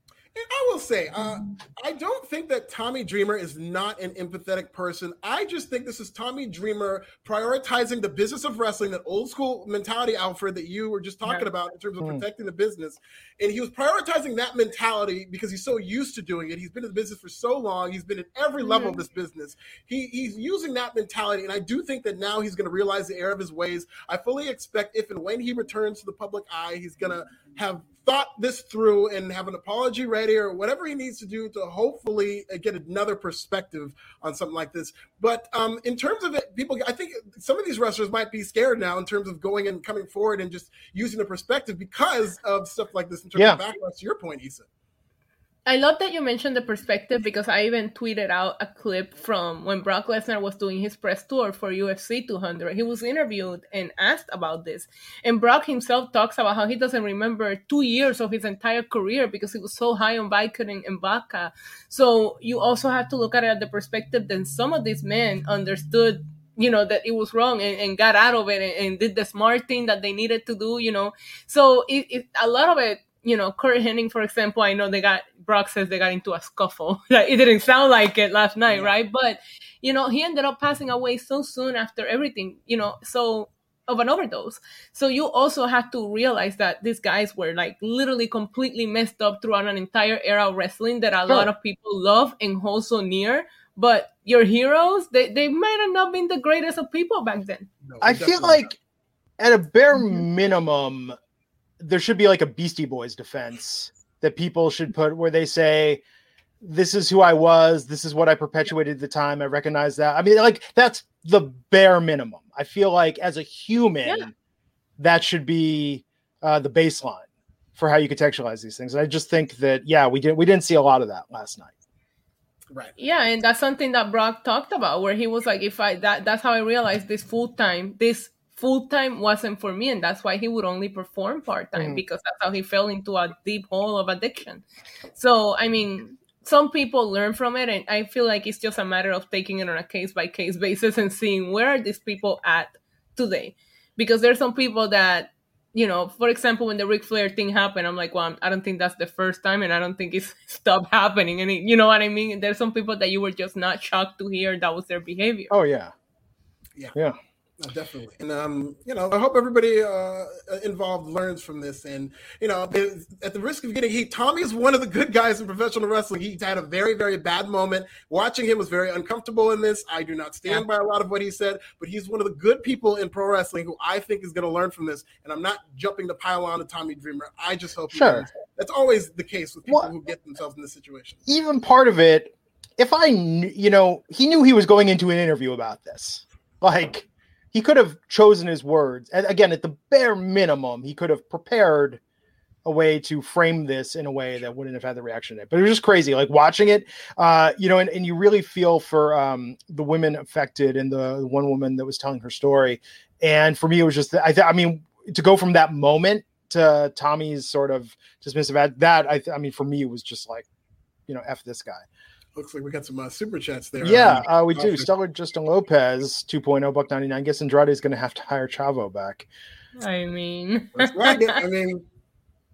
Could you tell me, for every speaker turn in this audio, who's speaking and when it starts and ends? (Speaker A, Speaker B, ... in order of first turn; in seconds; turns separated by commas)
Speaker A: 0.3-44.6, Speaker B: 18.6-19.0, Speaker B: 45.6-97.7, Speaker A: 78.7-78.9, Speaker A: 97.8-98.7, Speaker C: 98.0-98.8, Speaker C: 99.4-101.2, Speaker C: 101.8-106.0, Speaker C: 106.6-114.3, Speaker C: 115.0-117.2, Speaker C: 117.8-121.7, Speaker A: 122.7-123.0, Speaker B: 123.0-155.5, Speaker C: 131.8-132.0, Speaker C: 155.5-155.9, Speaker A: 157.6-181.2, Speaker C: 177.9-178.2, Speaker C: 181.3-192.0, Speaker C: 192.6-210.5, Speaker C: 211.1-211.8, Speaker A: 212.3-214.9, Speaker C: 213.8-219.3, Speaker B: 219.8-221.4, Speaker A: 220.8-221.8